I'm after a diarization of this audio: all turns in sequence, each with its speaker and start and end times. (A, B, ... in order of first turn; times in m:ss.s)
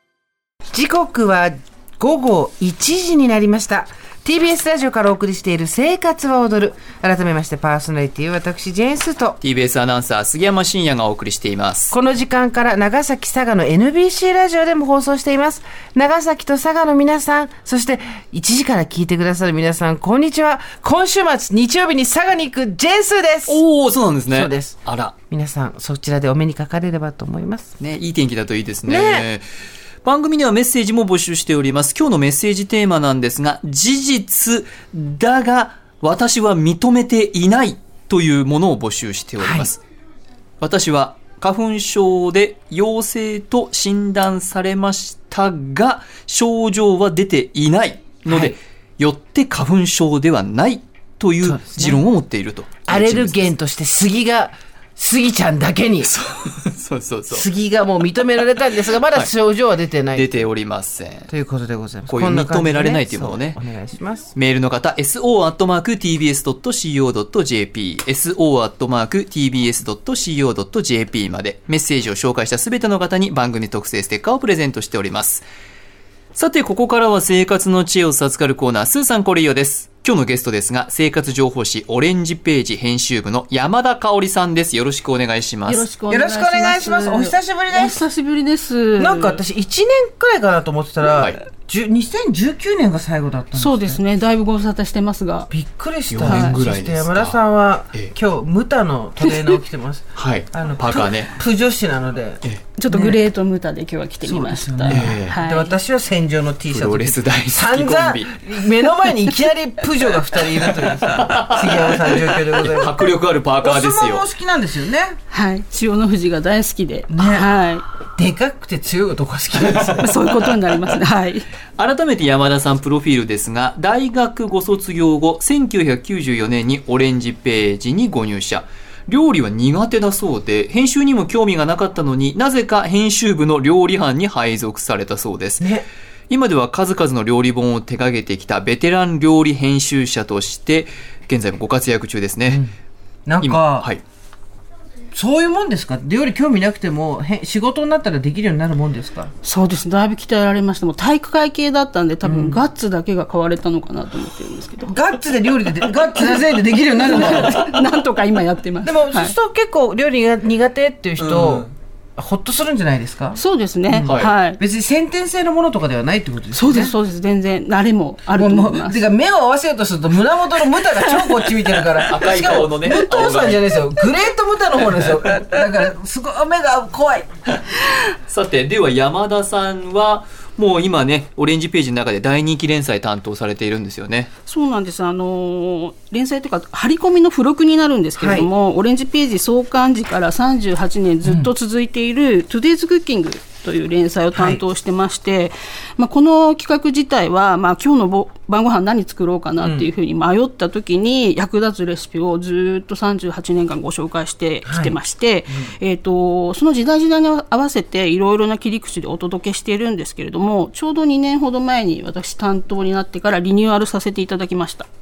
0:00.7-0:09.4 A
0:09.4-0:12.0 B
0:11.9-0:23.6 A
0:23.5-0:25.1 B
0:24.3-0:27.7 A
0:27.8-0:29.4 B
0:28.9-0:29.3 A
0:30.0-0:39.8 B
0:39.4-0:39.7 A
0:40.6-0:53.5 B
0:48.3-0:48.6 A
0:51.4-0:52.0 A
0:52.9-0:56.1 A
0:56.0-0:57.5 B
0:57.3-1:00.5 A
1:00.1-1:01.3 B
1:01.3-1:04.3 A
1:02.1-1:03.6 B
1:04.4-1:15.5 B
1:16.3-1:25.9 B
1:25.7-1:29.4 C
1:26.1-1:28.1 A
1:29.0-1:34.0 A
1:31.1-1:31.4 B
1:33.6-1:35.5 C
1:35.5-1:43.2 A
1:36.1-1:37.4 B
1:36.2-1:36.6 C
1:40.2-1:41.3 B
1:42.8-1:45.8 C
1:44.2-1:53.1 A
1:44.9-1:45.4 B
1:46.7-1:48.5 B
1:50.2-1:54.3 B
1:53.6-1:55.2 A
1:55.3-1:57.8 C
1:57.1-1:57.5 A
1:58.2-2:00.4 A
2:00.0-2:01.5 C
2:01.8-2:15.7 B
2:15.6-2:15.9 A
2:16.3-2:22.6 B
2:22.5-2:22.7 A
2:23.3-2:23.9 A
2:23.4-2:24.0 B
2:25.1-2:29.3 A
2:29.4-2:35.0 C
2:32.2-2:32.6 A
2:34.8-2:37.8 A
2:37.1-2:39.3 C
2:38.8-2:43.4 A
2:41.2-2:41.7 B
2:43.3-2:44.6 C
2:43.9-2:47.0 A
2:44.1-2:44.3 B
2:46.5-2:49.1 C
2:48.4-2:57.3 A
2:50.8-2:51.5 C
2:52.1-2:53.6 B
2:58.3-3:04.3 B
3:04.5-3:34.9 C
3:08.2-3:08.5 A
3:11.2-3:11.5 A
3:14.4-3:14.6 A
3:19.6-3:19.9 A
3:24.7-3:25.0 A